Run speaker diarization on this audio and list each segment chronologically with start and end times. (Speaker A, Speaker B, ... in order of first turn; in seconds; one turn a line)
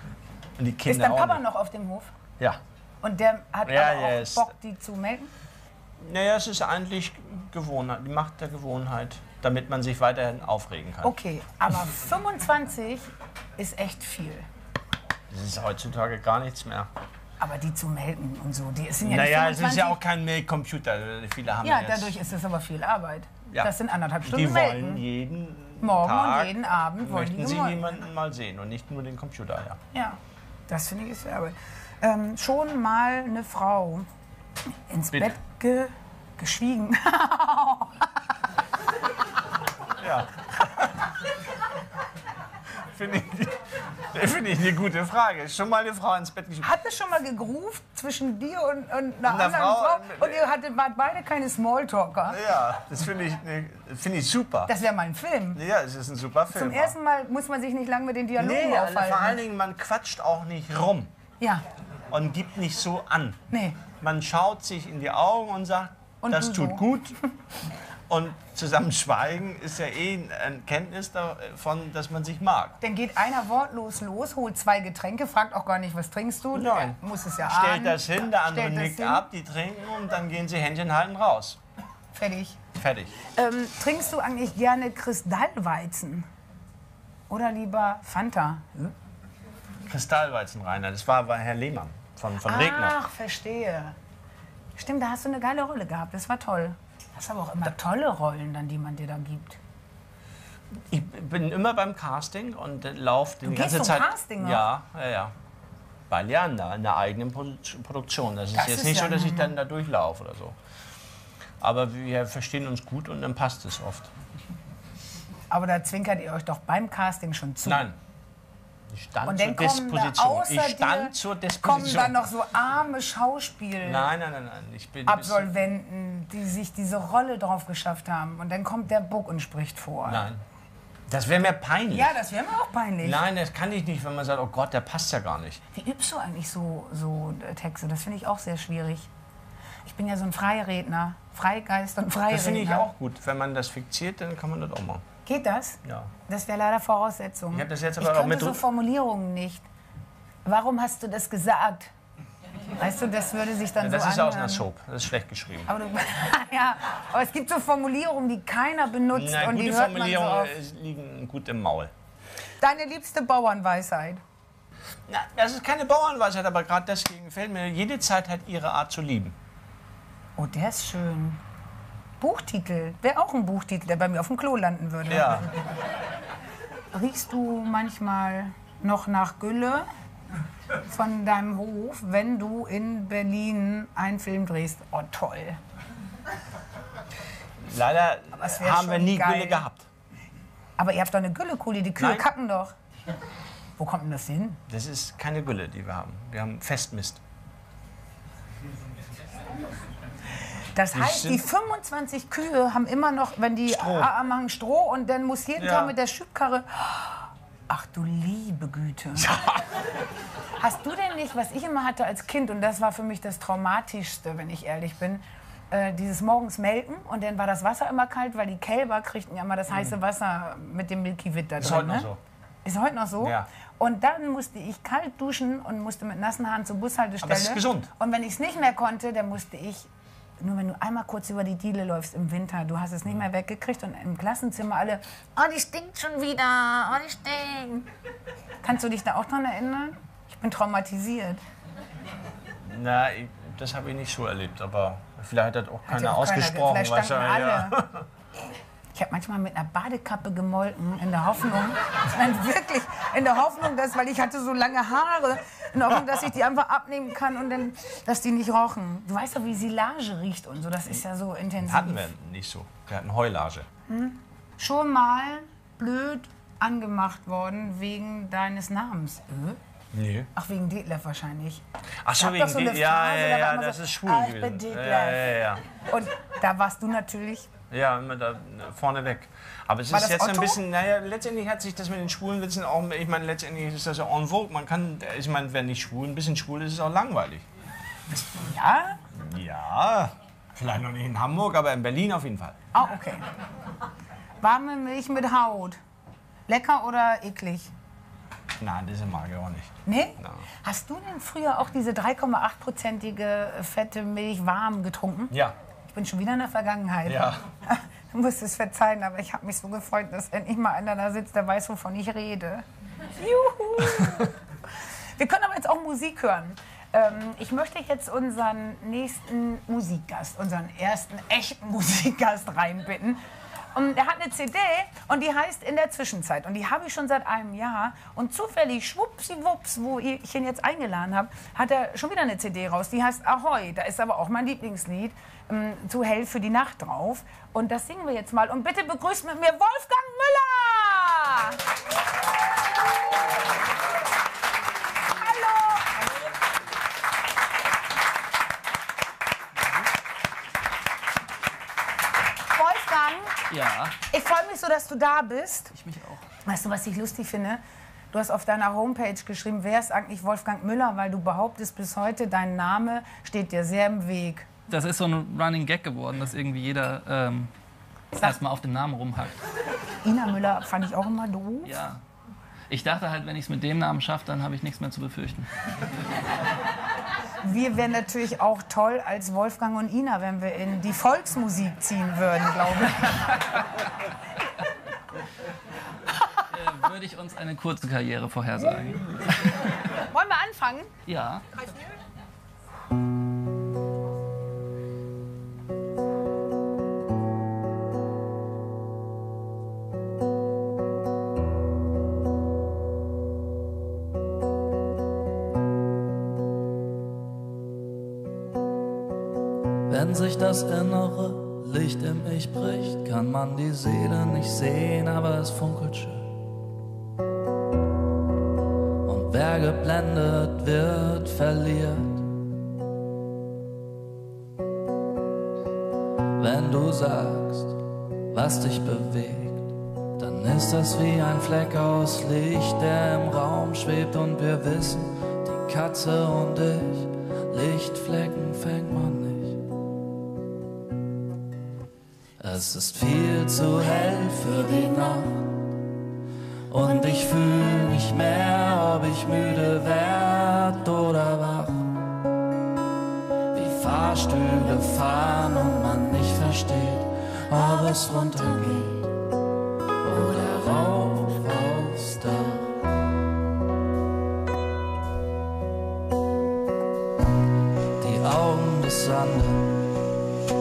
Speaker A: 0.6-1.4
Speaker B: 0.8-2.1
Speaker B: 3.0-5.3
Speaker A: 3.7-4.5
Speaker A: 6.0-11.2
Speaker B: 11.0-14.5
Speaker A: 15.3-16.9
Speaker B: 17.4-20.0
Speaker A: 19.0-22.1
Speaker B: 21.6-25.0
Speaker A: 23.5-29.8
Speaker B: 25.8-28.1
Speaker B: 29.9-34.1
Speaker B: 34.9-38.1
Speaker A: 35.1-35.4
Speaker A: 40.0-41.0
Speaker A: 42.9-46.7
Speaker B: 46.6-52.4
Speaker A: 49.2-50.5
Speaker A: 52.3-54.8
Speaker B: 54.7-55.6
Speaker A: 55.5-57.0
Speaker B: 56.5-59.4
Speaker A: 58.4-61.1
Speaker A: 62.1-67.2
Speaker B: 63.5-63.8
Speaker B: 66.2-66.9
Speaker A: 68.1-72.8
Speaker B: 72.8-79.3
Speaker A: 76.5-81.6
Speaker B: 82.1-82.6
Speaker A: 82.7-83.2
Speaker B: 83.3-86.3
Speaker B: 87.3-88.9
Speaker A: 89.9-93.0
Speaker B: 92.4-94.0
Speaker B: 94.8-99.6
Speaker A: 100.8-105.3
Speaker B: 103.5-104.7
Speaker A: 106.1-110.6
Speaker B: 108.5-109.5
Speaker A: 111.6-114.1
Speaker B: 115.5-117.8
Speaker A: 117.6-118.0
Speaker A: 118.9-122.2
Speaker B: 119.2-124.1
Speaker A: 123.8-125.7
Speaker B: 125.1-130.2
Speaker A: 130.1-130.4
Speaker A: 131.1-132.2
Speaker B: 131.9-133.2
Speaker A: 133.0-135.6
Speaker B: 135.7-139.1
Speaker B: 139.8-142.9
Speaker A: 142.3-145.1
Speaker B: 145.2-149.7
Speaker A: 145.8-146.1
Speaker A: 147.5-148.6
Speaker B: 150.4-151.9
Speaker B: 152.8-154.7
Speaker A: 153.8-155.7
Speaker B: 155.7-160.5
Speaker A: 159.1-161.9
Speaker B: 162.6-164.2
Speaker A: 165.1-169.3
Speaker B: 170.4-171.4
Speaker B: 172.2-175.6
Speaker A: 175.1-175.5
Speaker B: 176.9-179.9
Speaker B: 180.8-185.6
Speaker A: 187.6-189.9
Speaker B: 188.4-189.6
Speaker B: 190.8-192.8
Speaker A: 192.0-192.3
Speaker B: 193.8-194.6
Speaker A: 194.7-197.2
Speaker B: 200.8-209.3
Speaker A: 200.9-201.5
Speaker A: 203.7-204.1
Speaker A: 205.6-205.9
Speaker A: 209.2-209.6
Speaker B: 210.6-222.1
Speaker A: 219.7-219.9
Speaker A: 221.6-222.2
Speaker B: 222.6-237.9
Speaker A: 223.2-223.5
Speaker A: 227.2-227.9
Speaker B: 238.6-241.4
Speaker A: 242.6-248.1
Speaker B: 245.9-247.8
Speaker B: 248.9-262.1
Speaker A: 261.6-263.7
Speaker B: 263.9-269.6
Speaker A: 269.9-270.3
Speaker B: 270.3-271.6
Speaker A: 272.0-275.6
Speaker B: 272.2-277.5
Speaker A: 277.7-287.4
Speaker B: 279.9-280.6
Speaker B: 288.1-289.0
Speaker A: 289.1-292.6
Speaker B: 292.7-293.3
Speaker B: 294.4-295.8
Speaker B: 296.5-297.7
Speaker A: 298.6-300.4
Speaker B: 299.9-305.3
Speaker B: 305.9-312.6
Speaker A: 307.1-307.4
Speaker B: 313.2-314.4
Speaker B: 315.2-323.2
Speaker B: 323.7-341.6
Speaker B: 345.1-346.0
Speaker B: 352.5-353.4
Speaker C: 353.5-354.0
Speaker B: 354.0-355.7
Speaker C: 355.8-356.2
Speaker B: 356.4-364.5
Speaker C: 364.7-367.5
Speaker C: 368.2-369.4
Speaker B: 370.0-371.8
Speaker C: 371.6-372.0
Speaker C: 372.7-375.5
Speaker B: 377.4-383.4
Speaker C: 386.5-389.7
Speaker B: 390.0-390.9
Speaker C: 391.1-391.5
Speaker D: 409.9-416.3
Speaker D: 419.1-422.3
Speaker D: 426.4-427.8
Speaker D: 428.3-439.6
Speaker D: 442.4-445.8
Speaker D: 446.7-451.9
Speaker D: 453.5-459.1
Speaker D: 460.0-462.7
Speaker D: 468.0-469.8